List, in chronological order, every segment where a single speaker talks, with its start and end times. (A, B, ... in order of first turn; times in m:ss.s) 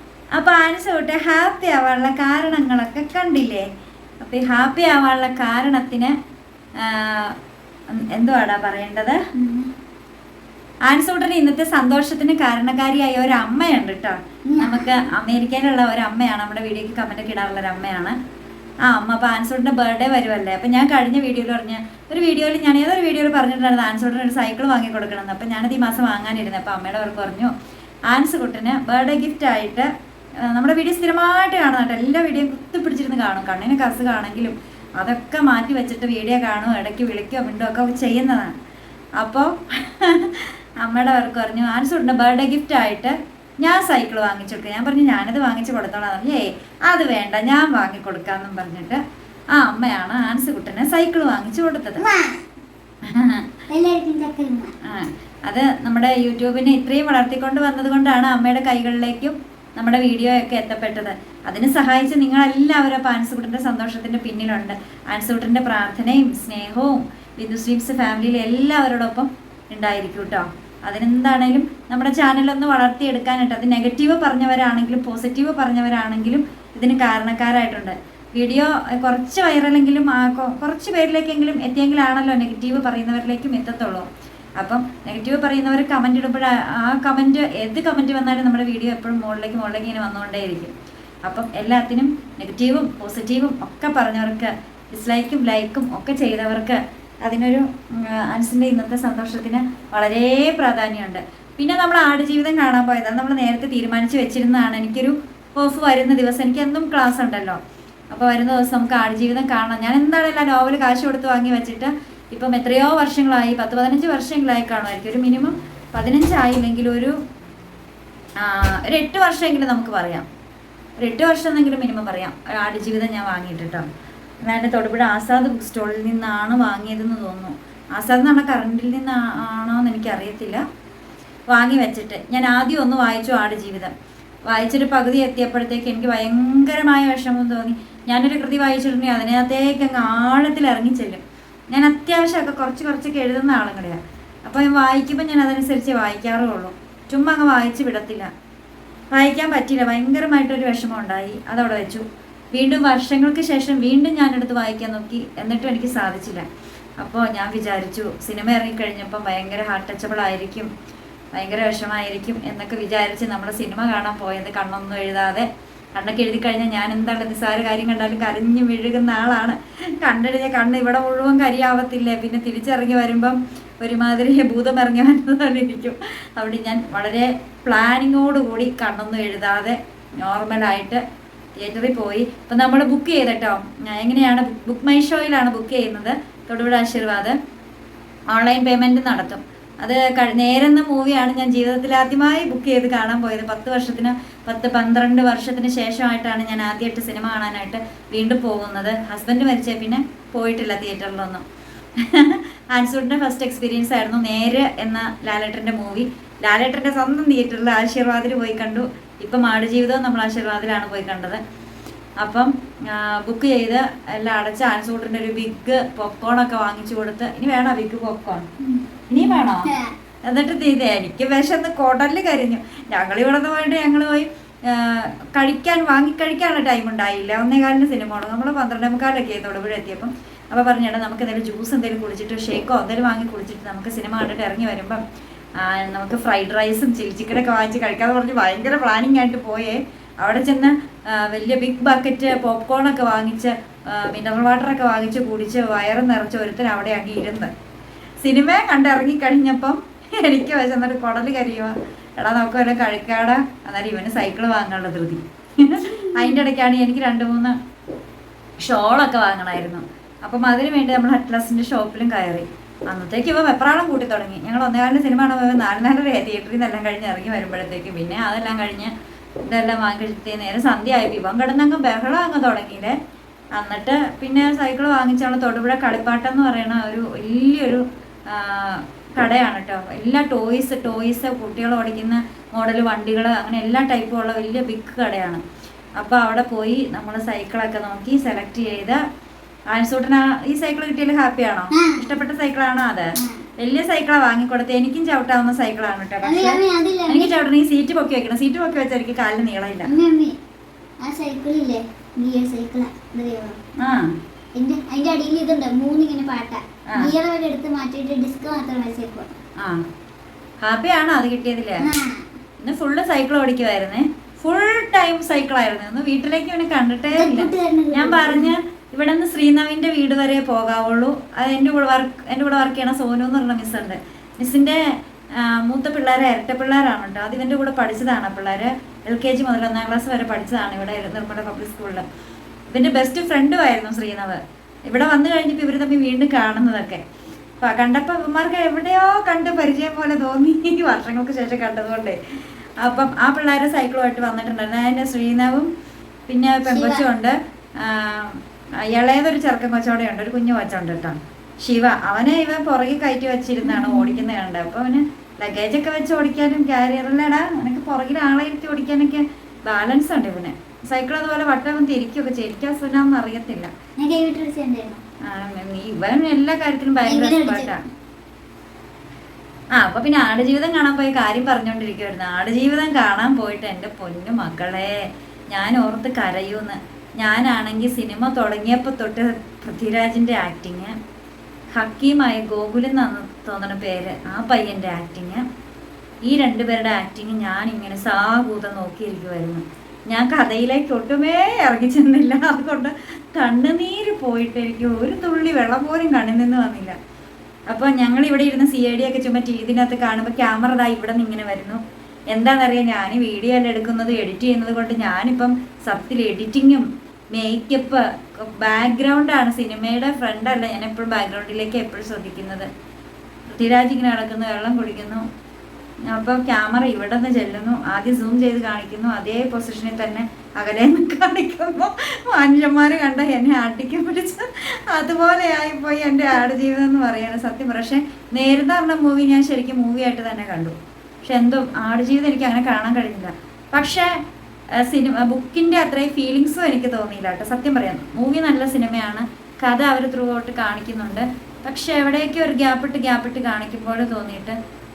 0:00.4-0:03.7 A
0:04.2-0:06.1 A
0:06.8-0:07.4 A
0:07.9-0:09.2 A
0:09.4-0:09.7 B
0:10.9-0:18.2 A
0:14.5-0:15.0 B
0:18.8-0:27.5 A
0:28.1-0:38.6 A
0:39.2-0:49.0 A
0:49.5-0:52.0 A
0:52.0-0:52.4 B
0:53.1-0:53.4 A
0:53.7-0:54.7 B
0:54.8-1:24.1 A
1:24.6-1:30.7 A
1:31.2-1:47.6 A
1:48.1-1:57.2 A
1:58.4-2:00.3 A
2:01.0-2:03.9 A
2:04.4-2:10.6 A
2:11.5-2:13.9 A
2:14.5-2:28.3 A
2:29.1-2:36.5 A
2:37.0-2:40.7 A
2:41.4-3:01.0 A
3:01.6-3:07.4 A
3:08.3-3:21.4 A
3:22.0-3:31.4 A
3:32.2-3:38.5 A
3:38.6-3:39.9 B
3:39.1-3:39.7 A
3:40.3-3:55.0 A
3:55.6-4:07.5 A
4:08.2-4:17.6 A
4:16.0-4:16.4 B
4:18.6-4:28.9 A
4:29.5-4:33.0 A
4:33.6-4:45.4 A
4:46.0-4:49.0 A
4:49.7-4:59.9 A
4:51.7-4:52.2 B
4:53.2-4:53.4 B
4:56.2-4:57.3 B
4:59.8-5:00.4 B
5:01.0-5:03.6 B
5:03.8-5:04.1 A
5:04.6-5:09.3 B
5:06.9-5:07.1 A
5:10.6-5:11.9 A
5:11.8-5:12.3 B
5:12.6-5:24.8 A
5:17.1-5:18.5 B
5:25.3-5:32.1 A
5:32.7-5:37.0 A
5:37.6-5:42.2 A
5:42.8-5:45.7 A
5:46.3-6:03.7 A
5:46.6-5:47.1 B
5:53.6-5:54.2 B
6:04.0-6:05.0 B
6:05.2-6:07.8 A
6:07.0-6:07.7 B
6:09.8-6:21.0 A
6:21.7-6:25.4 A
6:26.2-6:37.0 A
6:37.7-6:52.7 A
6:53.5-6:55.2 A
6:56.1-7:14.1 A
7:14.7-7:24.6 A